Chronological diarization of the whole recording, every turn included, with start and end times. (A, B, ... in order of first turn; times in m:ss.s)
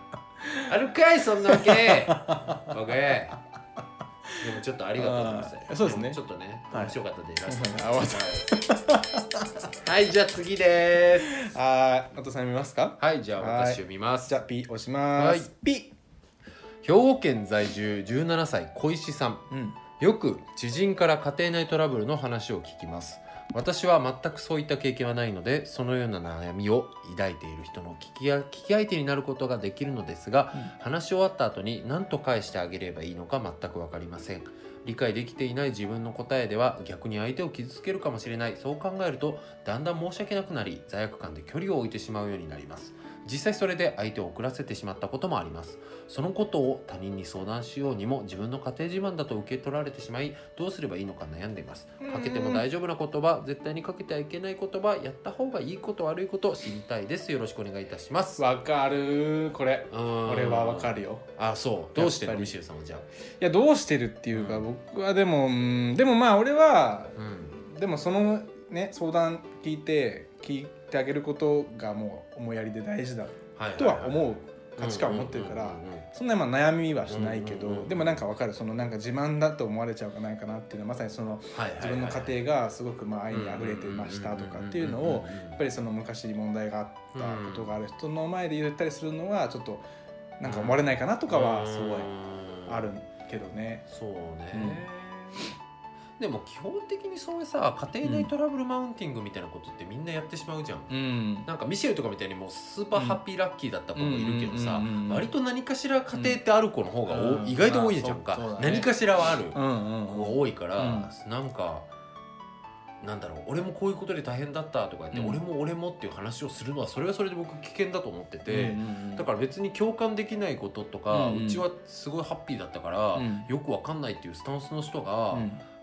0:00.4-0:00.7 A
0:00.7-0:03.4 B
0:01.5-0:02.7 A
0:04.4-0:08.5 B
0:05.0-0:06.2 A
0:06.7-0:09.7 A
0:09.8-0:11.3 B
0:11.3-0:15.9 A
0:13.0-0:14.3 B
0:15.1-0:15.5 B
0:16.8-0:19.4 B
0:19.5-0:19.8 A
0:20.0-0:58.4 B
0:52.0-0:52.6 A
0:58.4-1:01.3 A
0:59.9-1:03.0 B
1:01.9-1:02.5 A
1:03.4-1:29.8 A
1:04.3-1:04.6 B
1:07.2-1:07.6 B
1:13.6-1:16.0 B
1:17.1-1:18.2 B
1:21.5-1:22.4 B
1:23.3-1:25.6 B
1:27.1-1:27.8 B
1:30.4-1:32.1 A
1:30.4-1:32.9 B
1:32.6-1:33.8 A
1:33.9-1:35.4 B
1:34.5-1:34.8 A
1:36.2-1:40.9 B
1:38.0-1:38.3 A
1:40.9-1:41.5 A
1:41.4-1:51.9 B
1:42.9-1:43.2 A
1:43.9-1:45.3 A
1:47.1-1:48.9 A
1:49.5-1:51.1 A
1:53.0-2:05.5 B
1:55.1-1:55.4 A
1:58.5-1:59.3 A
2:01.1-2:01.6 A
2:03.1-2:03.5 A
2:05.3-2:05.6 A